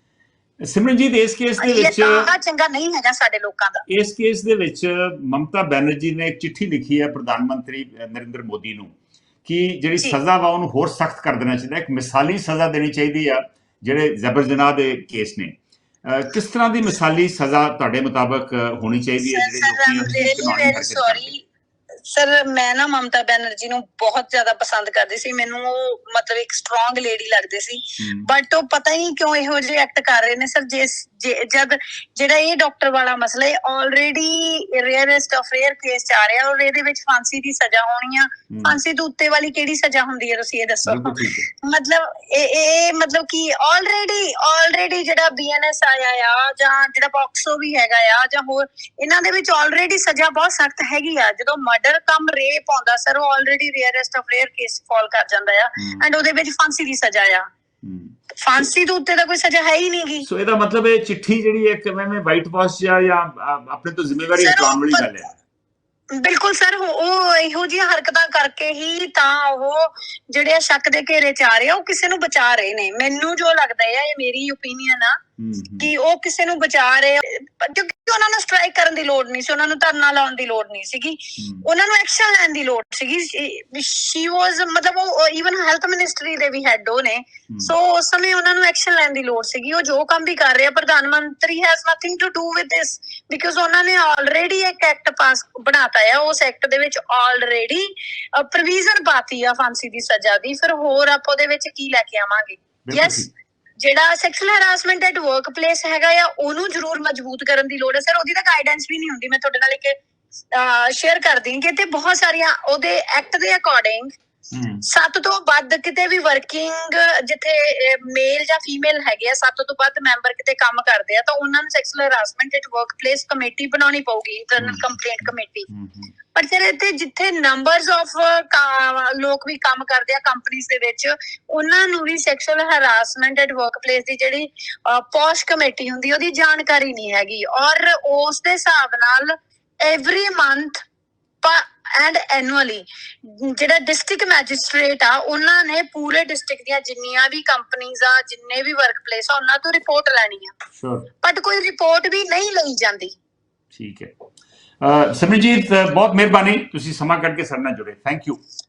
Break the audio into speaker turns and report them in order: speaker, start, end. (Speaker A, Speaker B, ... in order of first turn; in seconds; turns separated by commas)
Speaker A: 0.6-2.3, Speaker B: 1.6-3.8, Speaker A: 3.9-21.3, Speaker B: 19.2-21.4, Speaker B: 22.1-57.5, Speaker A: 28.0-28.3, Speaker A: 38.5-38.8, Speaker A: 40.9-41.5, Speaker A: 55.8-56.0, Speaker A: 57.8-58.1, Speaker B: 58.4-60.2, Speaker A: 60.2-65.3, Speaker B: 64.4-65.1, Speaker B: 66.1-75.2, Speaker A: 75.4-75.9, Speaker B: 75.8-110.0, Speaker A: 81.4-81.7, Speaker A: 102.8-103.3, Speaker B: 110.5-114.1, Speaker A: 114.5-114.8, Speaker B: 114.8-125.7, Speaker A: 124.6-126.1, Speaker B: 126.3-140.8, Speaker B: 141.4-150.5, Speaker A: 150.8-151.1, Speaker B: 151.2-153.2, Speaker A: 153.7-154.1, Speaker A: 154.8-158.4